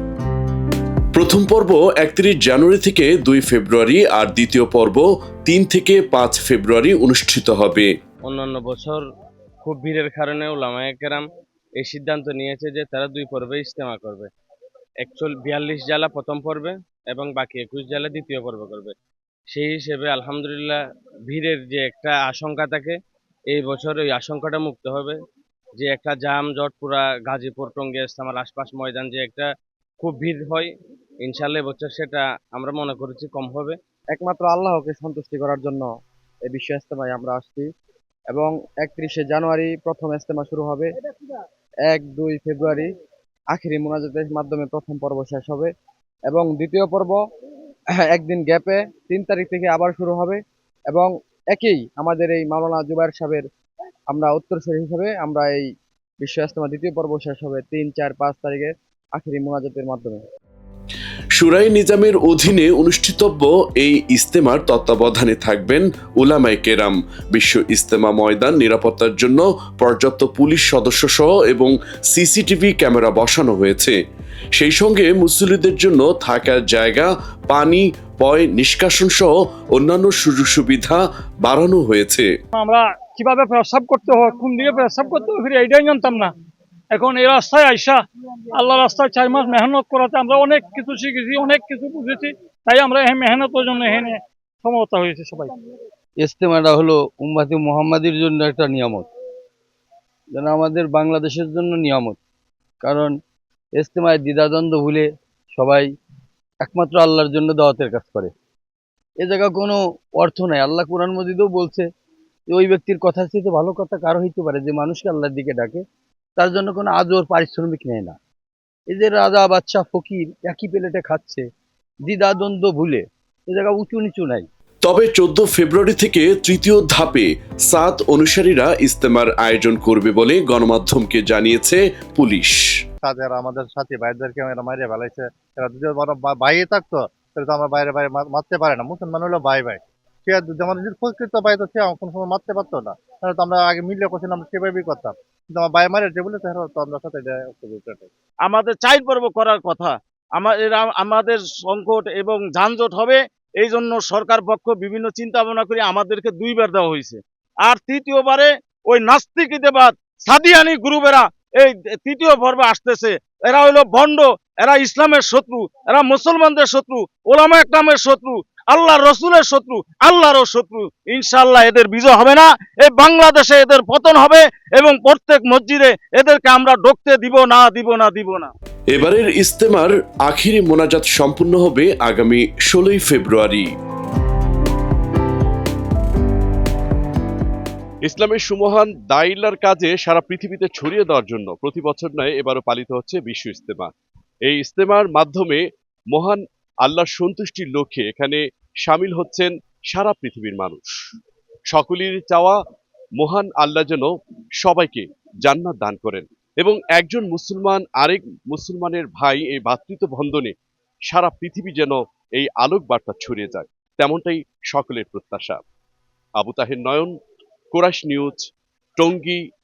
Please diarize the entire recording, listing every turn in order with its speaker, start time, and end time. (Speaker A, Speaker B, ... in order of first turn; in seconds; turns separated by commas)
Speaker A: 1.1-7.9, Speaker B: 8.2-9.0, Speaker B: 9.6-11.2, Speaker B: 11.8-14.3, Speaker B: 15.0-18.9, Speaker B: 19.5-23.0, Speaker B: 23.5-25.2, Speaker B: 25.8-29.5, Speaker B: 30.0-30.7, Speaker B: 31.2-33.8, Speaker C: 34.1-35.9, Speaker C: 36.4-37.7, Speaker C: 38.3-40.9, Speaker C: 41.9-42.9, Speaker C: 43.5-45.7, Speaker C: 46.3-47.2, Speaker C: 48.0-53.4, Speaker C: 54.1-55.6, Speaker C: 56.2-60.2, Speaker A: 61.4-74.0, Speaker A: 74.5-82.3, Speaker D: 82.5-86.3, Speaker D: 86.9-88.0, Speaker D: 88.6-95.5, Speaker E: 96.2-99.0, Speaker C: 96.9-99.0, Speaker E: 100.3-102.2, Speaker C: 100.7-101.5, Speaker E: 102.8-103.1, Speaker E: 103.8-105.0, Speaker C: 104.7-105.0, Speaker E: 105.6-105.8, Speaker C: 106.6-108.3, Speaker E: 106.7-108.3, Speaker E: 109.2-111.8, Speaker E: 112.5-115.8, Speaker E: 116.4-118.1, Speaker C: 117.4-118.1, Speaker E: 118.9-121.4, Speaker E: 122.0-124.5, Speaker A: 124.8-132.7, Speaker F: 133.0-148.1, Speaker G: 148.4-178.5, Speaker A: 178.9-183.7, Speaker A: 188.0-193.9, Speaker A: 194.4-201.1, Speaker A: 201.7-202.6, Speaker A: 203.2-210.5, Speaker A: 211.1-215.6, Speaker A: 216.4-217.1, Speaker A: 217.7-219.4